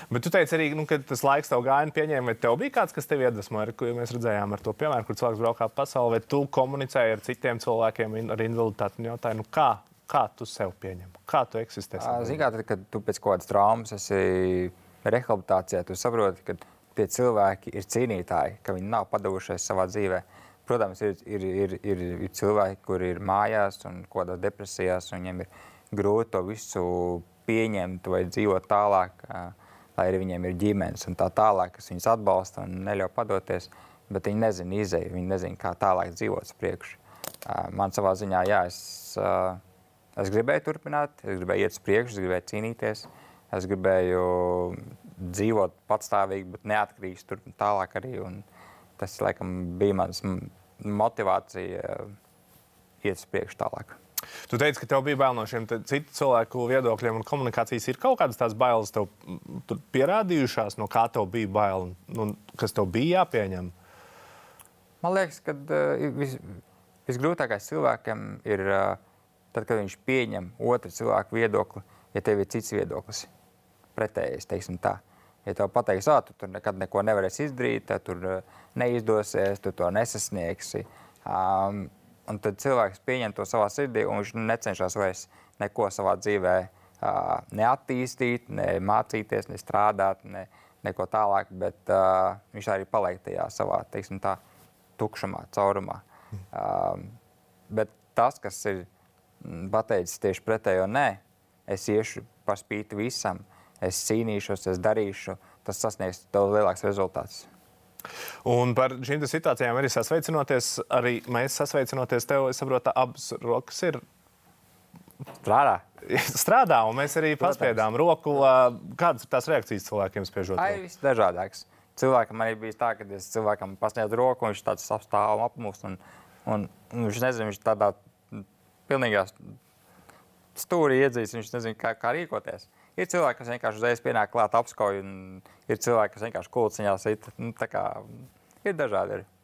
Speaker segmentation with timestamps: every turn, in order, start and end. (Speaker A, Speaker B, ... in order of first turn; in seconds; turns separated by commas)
Speaker A: 0.1-12.4, Speaker B: 12.0-39.6, Speaker B: 40.2-48.5, Speaker B: 49.0-52.1, Speaker B: 53.0-54.0, Speaker A: 54.5-63.7, Speaker B: 65.0-69.0, Speaker B: 69.5-73.3, Speaker B: 74.0-94.4, Speaker B: 95.0-97.2, Speaker B: 97.7-98.9, Speaker B: 99.4-107.5, Speaker A: 108.5-114.0, Speaker B: 115.4-115.8, Speaker A: 116.1-120.8, Speaker B: 117.4-117.8, Speaker B: 120.6-129.5, Speaker B: 130.6-139.3